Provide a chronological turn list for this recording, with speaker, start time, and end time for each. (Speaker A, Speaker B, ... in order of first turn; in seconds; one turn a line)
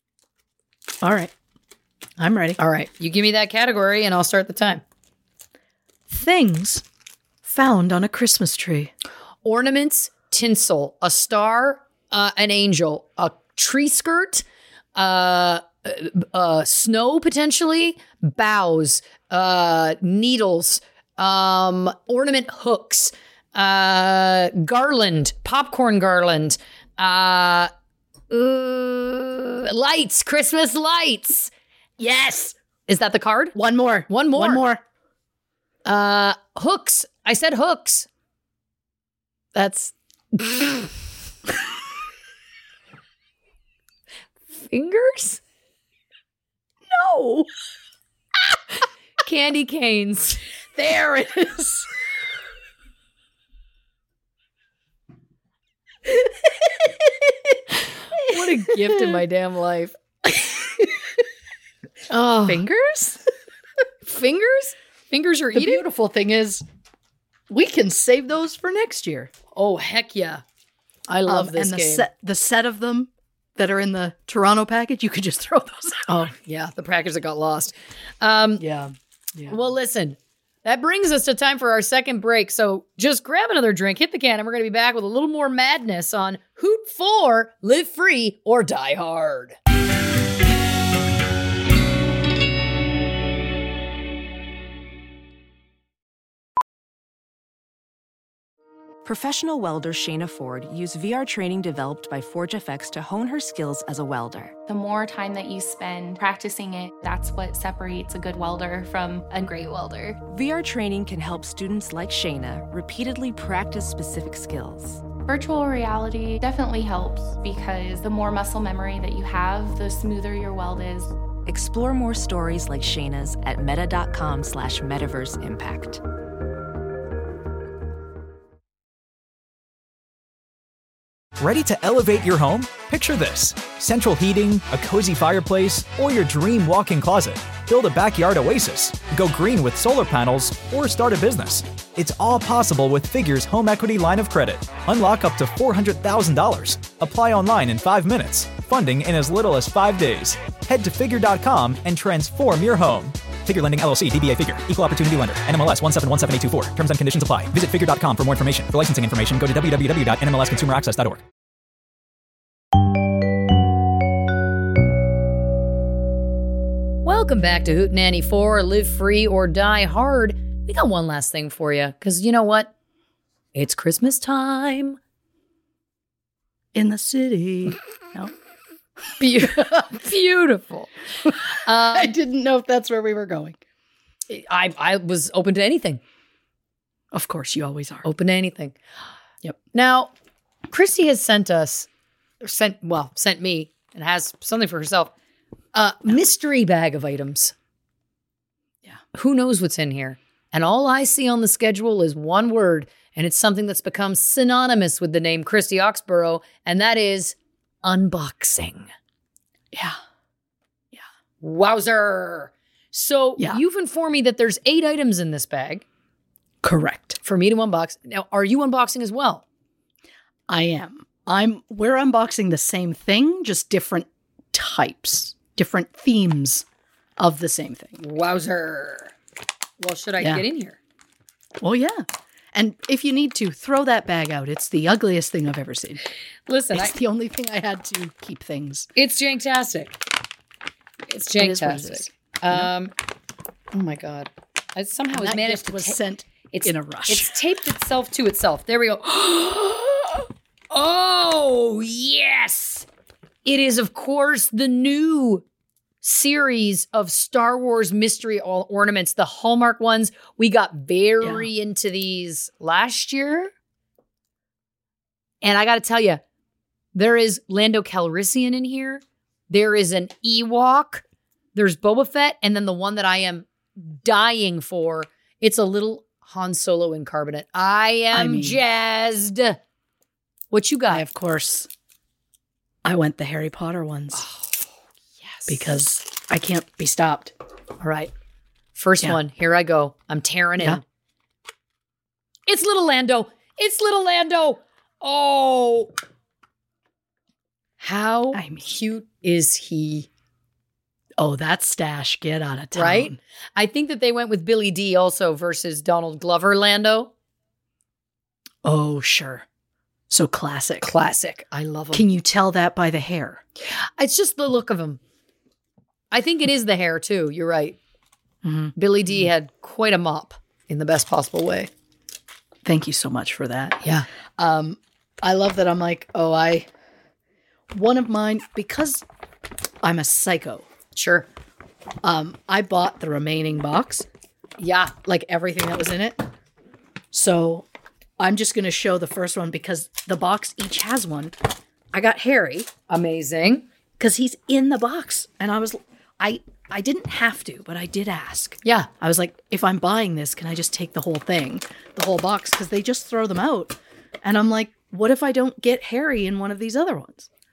Speaker A: 1.0-1.3
Speaker A: 2.2-2.6
Speaker B: 2.6-4.8
Speaker A: 6.1-6.8
Speaker A: 7.4-8.9
Speaker B: 9.4-14.4
Speaker B: 14.9-27.7
Speaker B: 28.3-31.5
Speaker A: 32.0-32.6
Speaker B: 32.9-33.6
Speaker A: 33.5-34.8
Speaker B: 34.1-34.6
Speaker B: 35.8-38.1
Speaker B: 39.5-40.9
Speaker B: 44.6-45.4
Speaker A: 46.9-47.5
Speaker B: 49.2-50.4
Speaker A: 50.7-51.9
Speaker A: 56.1-57.6
Speaker A: 58.2-59.2
Speaker B: 58.2-59.9
Speaker A: 60.3-60.9
Speaker B: 62.1-62.6
Speaker A: 62.4-63.2
Speaker B: 64.0-65.8
Speaker A: 65.5-66.6
Speaker A: 67.5-69.3
Speaker B: 69.5-70.4
Speaker B: 71.1-72.1
Speaker A: 71.2-76.3
Speaker B: 76.3-78.6
Speaker A: 78.6-79.6
Speaker B: 79.5-89.5
Speaker C: 99.0-104.5
Speaker D: 104.7-110.2
Speaker C: 110.2-115.1
Speaker D: 115.2-121.1
Speaker C: 121.4-126.0
Speaker E: 131.4-161.2
Speaker B: 167.0-172.7
Speaker B: 173.5-175.0
Speaker A: 176.7-178.3
Speaker B: 179.2-180.9
Speaker A: 179.4-179.8
Speaker B: 181.5-182.1
Speaker A: 181.9-183.6
Speaker B: 184.3-186.0
Speaker A: 187.1-188.1
Speaker B: 188.0-188.8
Speaker B: 189.7-190.1
Speaker B: 190.7-191.9
Speaker B: 192.4-195.1
Speaker B: 195.7-197.5
Speaker B: 199.1-208.9
Speaker A: 209.7-210.0
Speaker B: 211.4-215.8
Speaker A: 216.6-217.2
Speaker B: 217.2-219.4
Speaker A: 220.5-226.7
Speaker A: 227.2-228.0
Speaker B: 228.0-229.1
Speaker B: 229.8-230.8
Speaker A: 230.2-230.4
Speaker A: 231.6-236.0
Speaker B: 236.5-236.9
Speaker A: 236.7-238.9
Speaker B: 238.9-240.0
Speaker B: 241.1-242.9
Speaker A: 241.4-242.7
Speaker B: 243.7-246.0
Speaker A: 245.1-247.4
Speaker B: 246.5-250.2
Speaker B: 250.7-252.8
Speaker B: 253.4-255.4
Speaker B: 256.0-263.5
Speaker A: 261.2-261.5
Speaker B: 265.4-266.2
Speaker B: 266.9-271.0
Speaker B: 271.5-279.6
Speaker A: 278.1-278.6
Speaker B: 280.5-281.0
Speaker A: 280.9-281.7
Speaker A: 282.8-284.2
Speaker B: 284.1-284.7
Speaker B: 285.2-285.6
Speaker A: 285.5-287.3
Speaker B: 287.8-288.1
Speaker B: 288.7-290.8
Speaker B: 292.5-295.9
Speaker B: 297.8-300.1
Speaker A: 298.3-298.8
Speaker A: 301.2-303.2
Speaker B: 302.7-307.1
Speaker A: 308.6-309.4
Speaker A: 310.1-310.9
Speaker B: 310.8-312.1
Speaker A: 311.9-313.4
Speaker B: 313.7-315.0
Speaker B: 316.1-317.8
Speaker A: 318.4-319.3
Speaker B: 318.8-321.7
Speaker A: 322.6-326.7
Speaker A: 327.7-329.0
Speaker A: 329.8-330.7
Speaker B: 330.9-331.3
Speaker A: 332.0-334.1
Speaker B: 334.6-334.9
Speaker A: 335.0-336.2
Speaker A: 337.1-337.7
Speaker A: 338.2-341.3
Speaker A: 341.9-342.7
Speaker B: 342.9-343.6
Speaker A: 344.0-357.3
Speaker B: 348.6-348.9